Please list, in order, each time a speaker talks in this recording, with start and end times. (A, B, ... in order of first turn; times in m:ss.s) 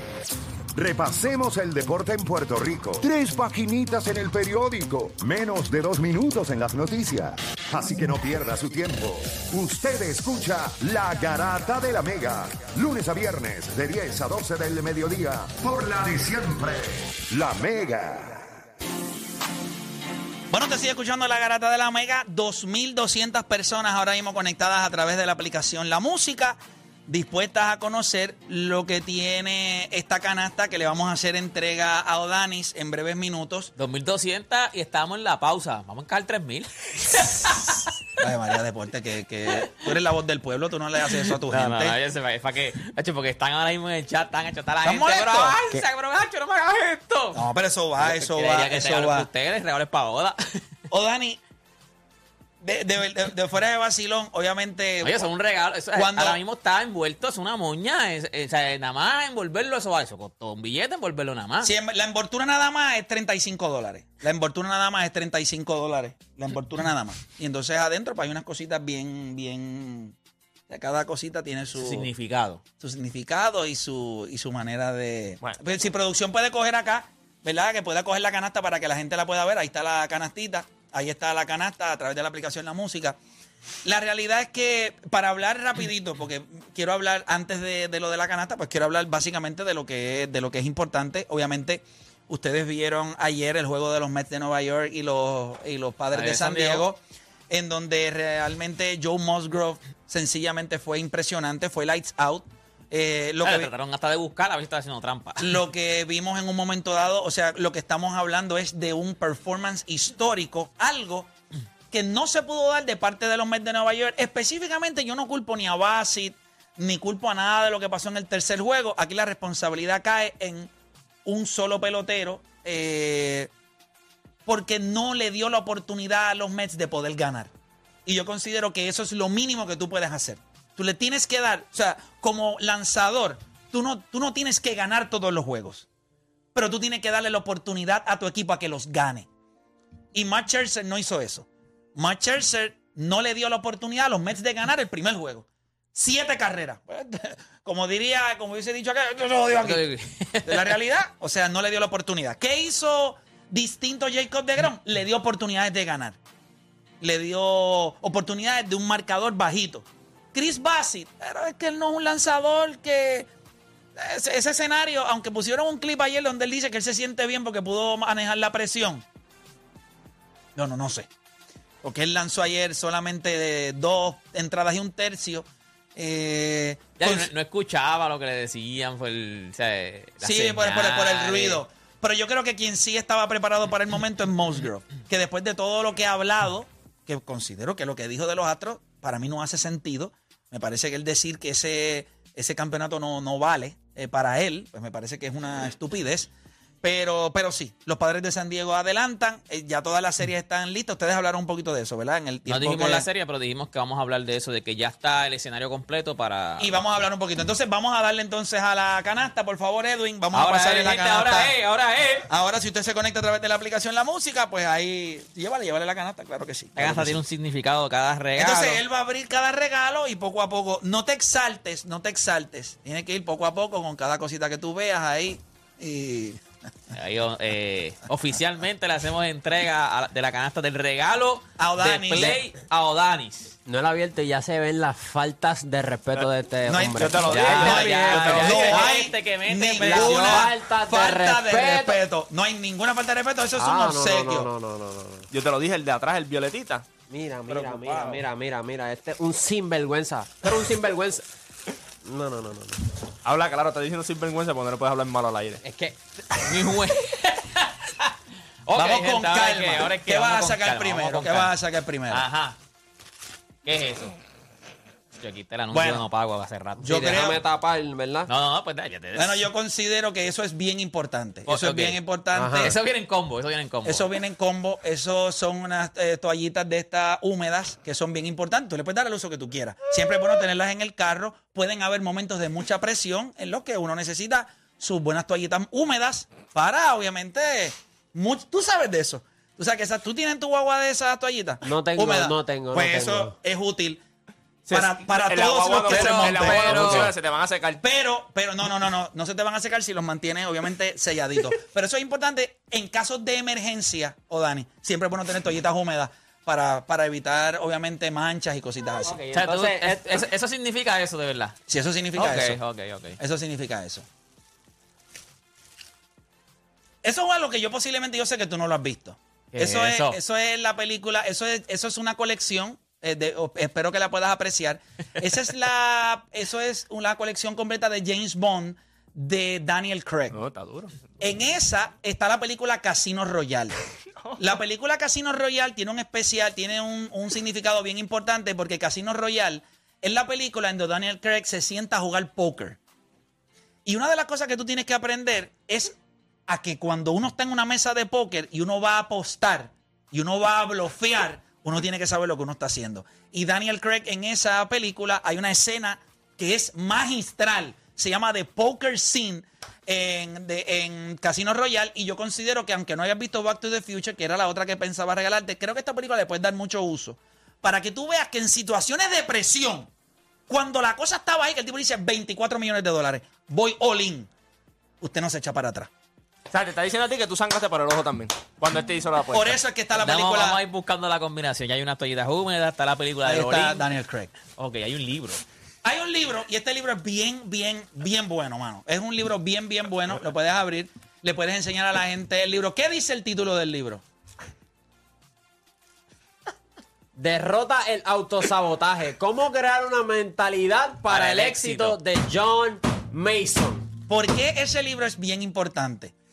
0:00.7-0:18.4 A
0:20.5-0:33.7 B
0:33.8-0:37.9 C
0:38.2-0:42.0 B
0:41.2-0:47.5 C
0:44.8-0:45.6 B
0:47.3-0:49.3 B
0:48.0-0:50.6 C
0:50.9-0:51.4 B
0:52.6-0:55.3 B
0:55.0-1:01.7 C
0:55.9-0:56.4 B
1:01.6-1:10.1 B
1:10.7-1:12.1 B
1:11.8-1:12.6 C
1:12.8-1:23.2 B
1:23.8-1:43.7 B
1:36.1-1:36.8 C
1:43.4-1:45.6 C
1:45.4-1:51.3 B
1:51.9-2:00.7 B
2:01.2-2:03.5 B
2:04.4-2:07.5 B
2:08.0-2:15.8 B
2:16.5-2:19.3 B
2:20.1-2:29.8 B
2:29.6-2:30.7 C
2:30.4-2:36.2 B
2:37.0-2:43.3 B
2:44.0-2:49.0 B
2:50.5-2:51.1 B
2:51.8-2:57.3 B
2:57.0-3:01.6 C
3:00.2-3:16.3 B
3:16.8-3:23.1 B
3:22.5-3:26.8 C
3:26.6-3:31.5 B
3:30.3-3:32.3 C
3:32.3-3:37.2 B
3:36.8-3:38.8 C
3:38.4-3:46.4 B
3:46.9-3:53.6 C
3:51.6-3:52.4 B
3:53.6-3:59.0 D
3:56.7-4:04.5 B
3:56.9-3:58.7 E
3:57.3-4:00.5 C
3:59.8-4:02.0 D
4:03.6-4:05.3 D
4:05.3-4:06.9 E
4:07.1-4:11.2 D
4:07.5-4:08.2 E
4:12.0-4:12.8 D
4:13.2-4:15.6 E
4:15.6-4:16.0 D
4:16.4-4:18.1 C
4:18.6-4:21.5 C
4:18.8-4:22.2 B
4:22.1-4:22.6 C
4:23.6-4:24.1 C
4:25.2-4:27.3 C
4:25.7-4:26.0 B
4:26.8-4:27.4 B
4:26.8-4:28.3 D
4:28.3-4:29.5 C
4:29.1-4:32.8 B
4:31.4-4:32.0 C
4:32.3-4:32.7 D
4:32.5-4:34.0 C
4:33.8-4:54.0 B
4:51.6-4:53.3 D
4:54.7-4:57.8 E
4:54.7-4:57.1 B
4:55.9-4:57.1 C
4:57.8-5:09.2 B
5:09.0-5:10.2 D
5:09.3-5:11.6 C
5:11.7-5:12.6 B
5:12.1-5:13.2 C
5:13.2-5:14.1 B
5:17.0-5:30.4 B
5:19.5-5:20.2 C
5:30.3-5:31.0 E
5:31.2-5:33.8 B
5:34.2-5:34.5 E
5:34.4-5:42.8 B
5:43.8-5:45.9 B
5:46.5-6:09.9 B
6:10.5-6:14.3 B
6:15.0-6:15.9 B
6:16.5-6:19.6 E
6:19.3-6:20.6 B
6:20.0-6:23.9 C
6:23.2-6:24.3 B
6:24.4-6:25.4 C
6:25.8-6:34.0 B
6:37.2-6:43.9 D
6:41.1-6:42.0 C
6:44.1-6:46.1 B